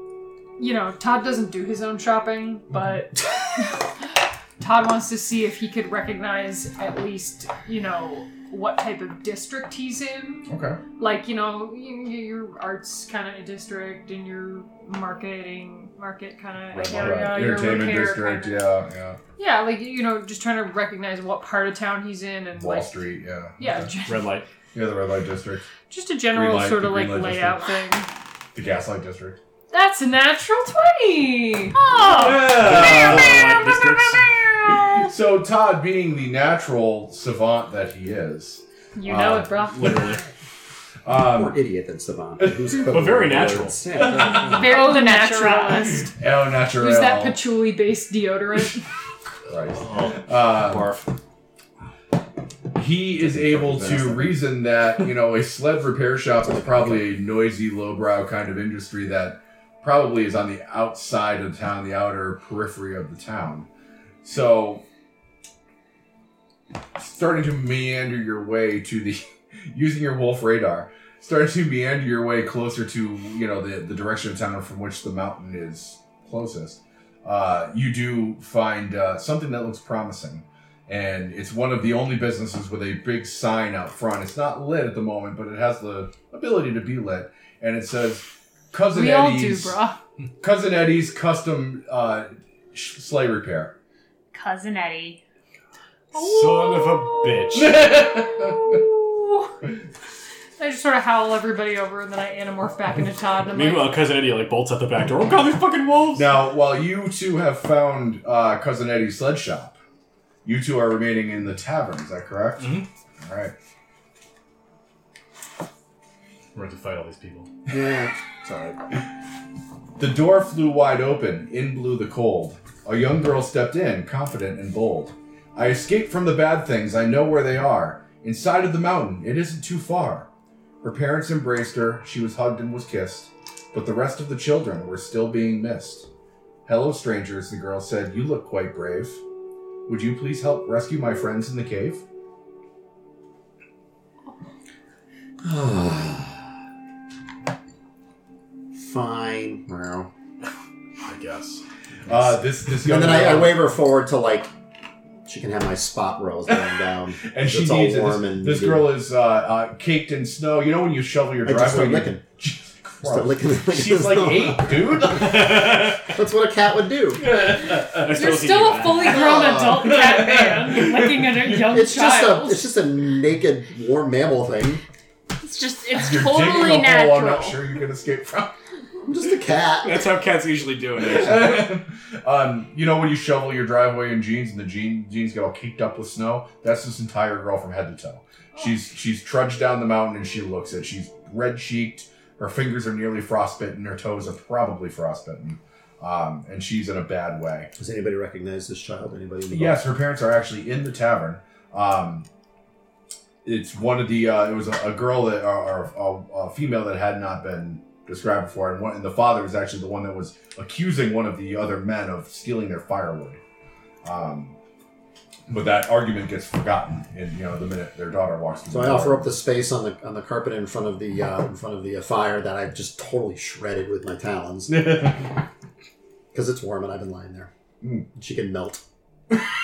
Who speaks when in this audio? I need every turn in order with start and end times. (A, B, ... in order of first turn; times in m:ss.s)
0:00.6-0:18.7 A
0:10.5-0:10.8 B
0:16.7-0:19.2 B
0:16.9-0:17.4 C
0:19.4-0:24.4 A
0:22.5-0:23.9 B
0:24.1-0:24.5 C
0:24.7-0:25.7 B
0:25.9-0:28.1 A
0:26.3-0:27.6 B
0:28.5-0:29.4 B
0:29.7-0:31.8 A
0:31.7-0:35.1 D
0:31.9-0:34.5 C
0:32.4-0:33.6 B
0:34.6-0:40.0 B
0:38.9-0:40.2 A
0:39.7-0:40.2 C
0:41.0-0:41.6 B
0:41.1-0:44.8 E
0:42.4-0:42.7 B
0:42.8-0:43.8 C
0:44.2-0:46.1 A
0:44.2-0:46.0 D
0:46.0-0:47.4 B
0:46.8-0:48.8 A
0:49.5-0:50.9 B
0:49.8-0:51.1 C
0:52.7-1:03.7 B
0:53.2-0:54.4 E
1:04.2-1:04.8 B
1:07.0-1:29.8 B
1:28.9-1:30.0 A
1:30.4-1:33.7 B
1:34.3-1:35.2 D
1:36.1-1:37.8 C
1:36.2-1:37.2 A
1:37.5-1:38.8 B
1:38.6-1:39.5 A
1:40.6-1:44.0 A
1:43.5-1:46.5 C
1:46.1-1:49.8 B
1:50.4-1:53.5 B
1:52.6-1:52.9 C
1:56.5-1:57.5 C
1:57.7-1:58.8 E
2:00.0-2:10.3 B
2:10.8-2:16.1 B
2:16.6-2:19.2 B
2:19.9-2:22.0 B
2:25.4-2:26.5 E
2:28.7-2:30.1 E
2:31.0-2:31.6 C
2:32.1-2:33.7 B
2:32.1-2:34.5 E
2:35.2-2:38.9 E
2:37.2-2:45.8 B
2:41.4-2:42.2 E
2:43.0-2:44.8 E
2:45.1-2:46.0 C
2:46.0-2:47.2 E
2:47.2-2:49.5 C
2:47.6-2:48.0 B
2:48.1-2:52.6 A
2:49.0-2:50.0 E
2:51.7-2:54.8 E
2:55.4-2:57.6 D
2:55.9-2:58.5 B
2:59.0-3:00.1 E
2:59.8-3:01.8 C
3:01.0-3:17.7 B
3:17.8-3:19.8 E
3:19.5-3:22.3 B
3:23.4-3:33.4 B
3:34.0-3:34.6 B
3:35.5-3:39.3 B
3:38.7-3:45.2 E
3:44.7-3:45.1 B
3:46.3-3:47.5 E
3:48.1-3:48.8 E